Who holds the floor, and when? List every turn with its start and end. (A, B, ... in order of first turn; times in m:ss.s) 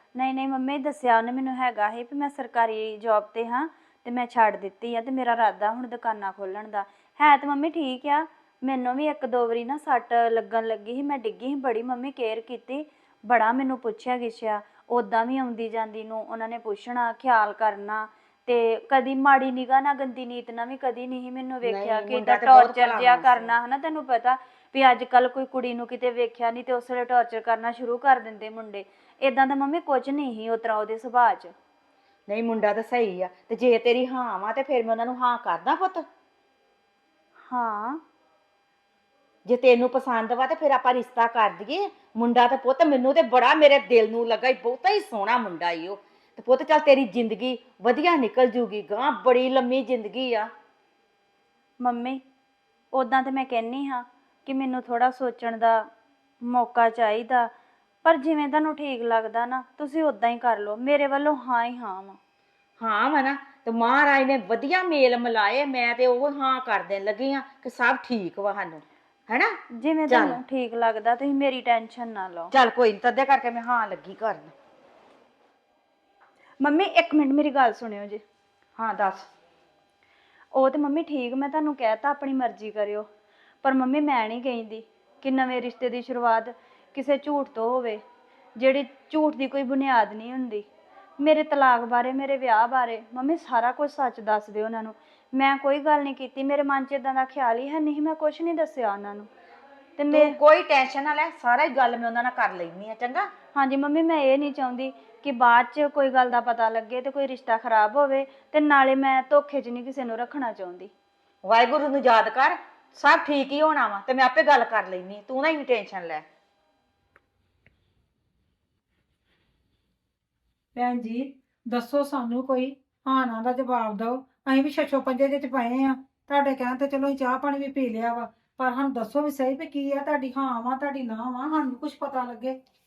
0:00.1-0:31.5 A
0:21.6-0:23.5 B
0:32.3-0:36.0 B
0:37.5-0:38.0 A
0:39.4-0:50.5 B
0:51.8-0:52.2 A
0:52.9-0:55.9 A
0:56.4-0:57.5 A
0:58.0-1:02.2 A
1:02.8-1:09.5 B
1:09.8-1:12.5 A
1:10.1-1:10.4 B
1:12.5-1:14.5 B
1:16.6-1:18.2 A
1:18.8-1:19.3 B
1:20.5-1:23.1 A
1:23.6-1:28.0 A
1:28.6-1:30.6 A
1:31.2-1:39.3 A
1:40.0-1:40.4 A
1:40.1-1:43.3 B
1:43.5-1:50.9 A
1:51.4-1:56.2 B
2:00.8-2:12.6 C